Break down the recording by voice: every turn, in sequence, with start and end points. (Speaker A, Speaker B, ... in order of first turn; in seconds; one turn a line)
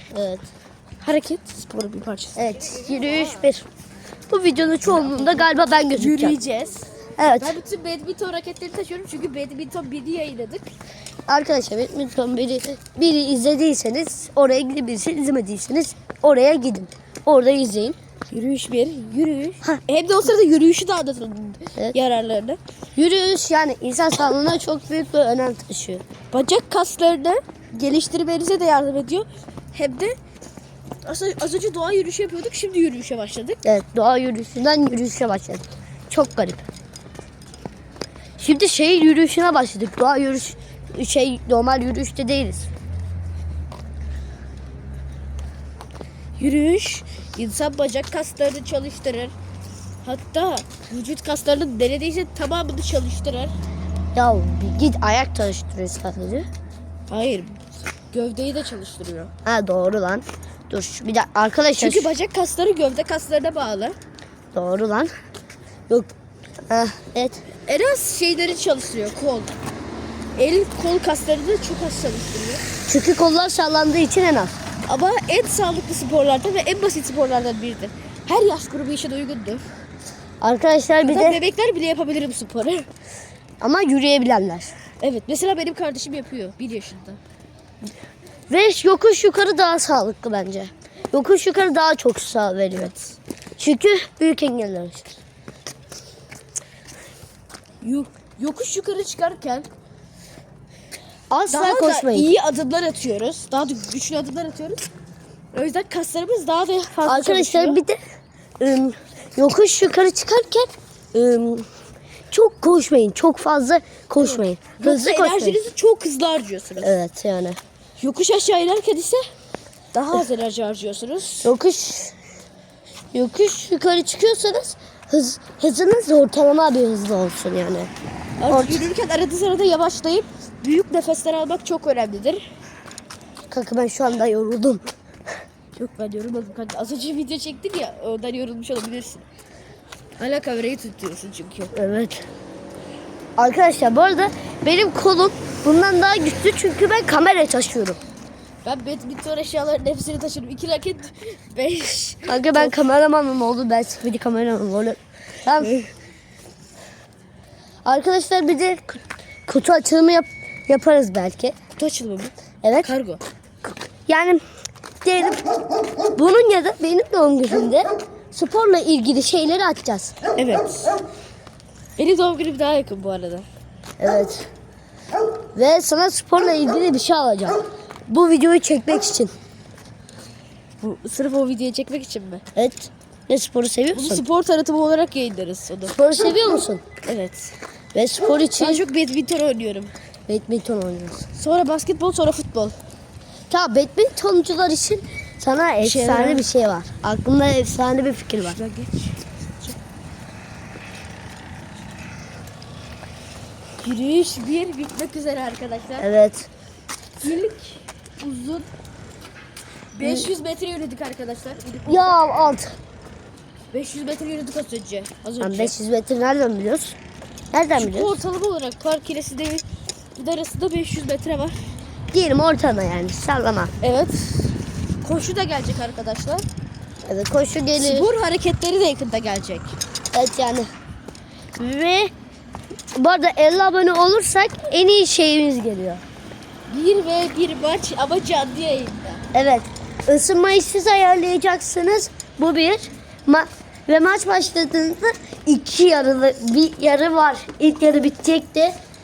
Speaker A: 0.1-0.5
Speaker B: 1.0-2.4
Speaker A: 2.4-3.6
Speaker A: 4.3-6.4
Speaker B: 4.9-10.7
Speaker A: 7.2-7.6
Speaker A: 11.3-18.0
Speaker B: 18.3-22.6
Speaker A: 22.9-26.0
Speaker B: 26.3-30.1
Speaker B: 31.0-33.6
Speaker A: 33.6-36.6
Speaker A: 38.4-42.7
Speaker B: 46.4-49.3
Speaker B: 50.0-53.5
Speaker A: 54.1-56.5
Speaker B: 57.1-57.6
Speaker B: 58.1-59.3
Speaker A: 59.4-62.1
Speaker B: 61.8-64.0
Speaker A: 64.5-65.1
Speaker A: 66.7-67.4
Speaker B: 67.7-69.5
Speaker B: 70.3-72.6
Speaker A: 72.9-74.5
Speaker B: 74.9-79.7
Speaker A: 80.4-81.4
Speaker B: 81.0-82.9
Speaker A: 83.6-84.7
Speaker B: 85.0-87.2
Speaker A: 88.5-92.9
Speaker A: 93.6-95.2
Speaker B: 97.8-99.7
Speaker A: 101.3-102.3
Speaker B: 101.5-104.8
Speaker B: 105.5-107.8
Speaker A: 107.0-108.0
Speaker A: 108.6-111.7
Speaker A: 112.3-115.6
Speaker B: 114.2-116.9
Speaker A: 116.8-117.6
Speaker B: 118.0-119.2
Speaker B: 119.9-121.5
Speaker A: 121.4-122.1
Speaker A: 123.1-127.9
Speaker B: 128.4-132.4
Speaker A: 128.5-128.9
Speaker A: 133.5-134.9
Speaker B: 135.8-139.2
Speaker B: 140.2-141.7
Speaker A: 141.7-142.2
Speaker A: 143.4-148.0
Speaker B: 148.6-152.8
Speaker A: 152.2-155.9
Speaker B: 155.6-155.9
Speaker A: 157.8-161.6
Speaker B: 161.8-163.2
Speaker A: 162.6-162.9
Speaker A: 164.1-164.4
Speaker A: 165.0-165.4
Speaker A: 166.2-170.1
Speaker B: 170.3-170.9
Speaker B: 172.0-173.4
Speaker A: 174.0-174.5
Speaker A: 175.5-179.3
Speaker B: 180.8-182.4
Speaker A: 182.5-184.2
Speaker B: 183.9-186.0
Speaker A: 185.9-186.8
Speaker B: 187.0-187.5
Speaker A: 187.9-188.8
Speaker B: 188.6-189.9
Speaker A: 190.3-191.2
Speaker B: 191.3-192.8
Speaker A: 193.5-198.6
Speaker B: 195.8-196.5
Speaker B: 198.4-199.7
Speaker B: 203.8-206.1
Speaker A: 206.0-206.5
Speaker B: 207.2-208.7
Speaker B: 209.9-212.1
Speaker A: 210.0-210.3
Speaker A: 211.9-212.8
Speaker B: 213.7-215.7
Speaker A: 215.4-217.0
Speaker A: 217.5-218.1
Speaker B: 217.7-219.6
Speaker B: 220.2-221.6
Speaker A: 222.1-223.7
Speaker B: 223.8-226.4
Speaker A: 227.1-228.1
Speaker B: 227.7-229.8
Speaker A: 230.1-230.7
Speaker A: 231.6-232.1
Speaker A: 232.9-236.0
Speaker B: 236.7-239.2
Speaker A: 239.3-248.7